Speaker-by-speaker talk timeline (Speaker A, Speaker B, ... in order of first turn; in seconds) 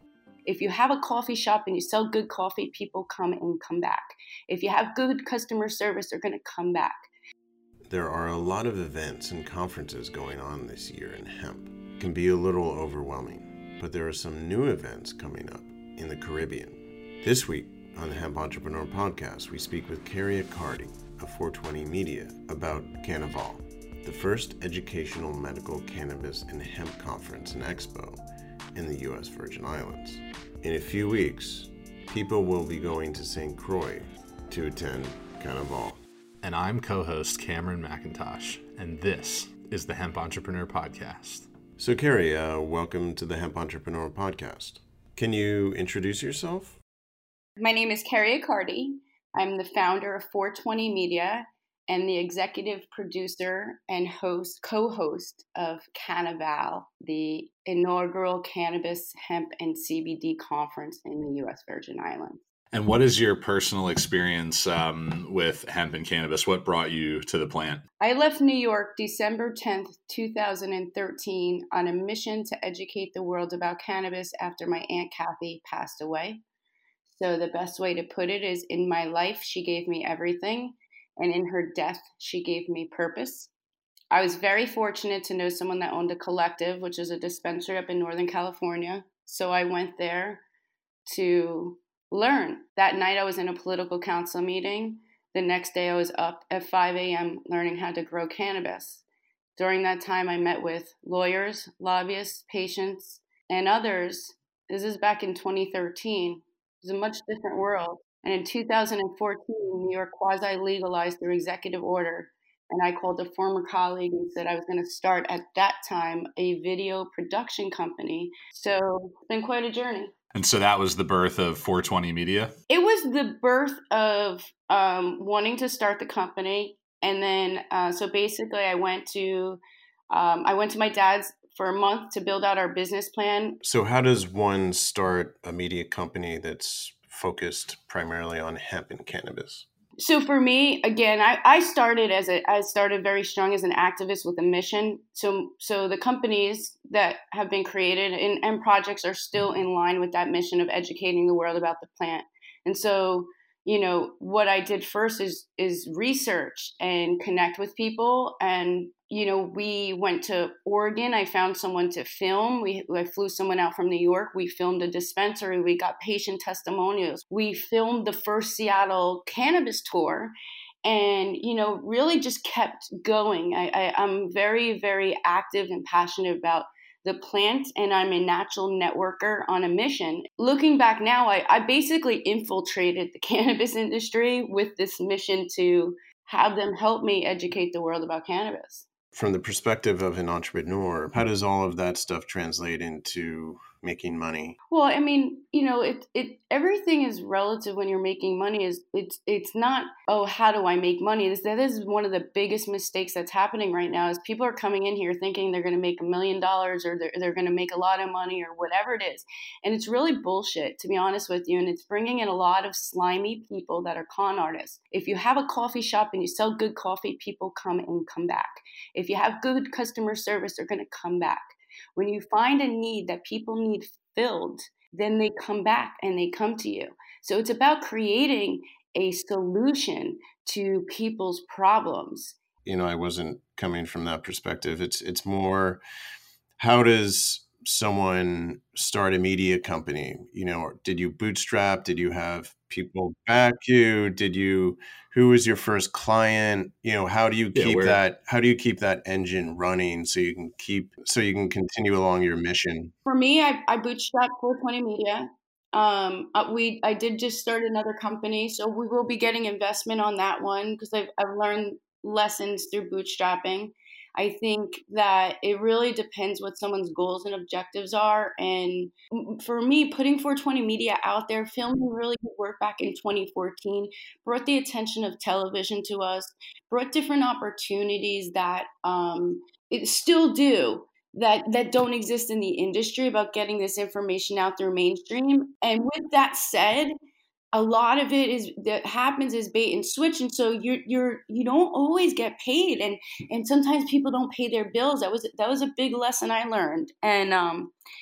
Speaker A: 0.5-7.1, 47.6-62.4, 68.0-76.4, 77.1-83.5, 84.1-90.4, 91.1-99.0, 99.6-120.1, 122.7-129.6, 130.1-133.6, 140.0-170.3, 170.8-188.8, 194.7-232.4, 253.1-286.9, 287.5-297.7
Speaker B: 7.9-28.2, 28.7-36.0, 41.8-46.8, 133.6-139.7, 189.1-194.6, 232.6-235.8, 236.6-252.9
Speaker C: 36.4-41.5, 62.7-67.8, 120.3-122.5, 247.5-248.0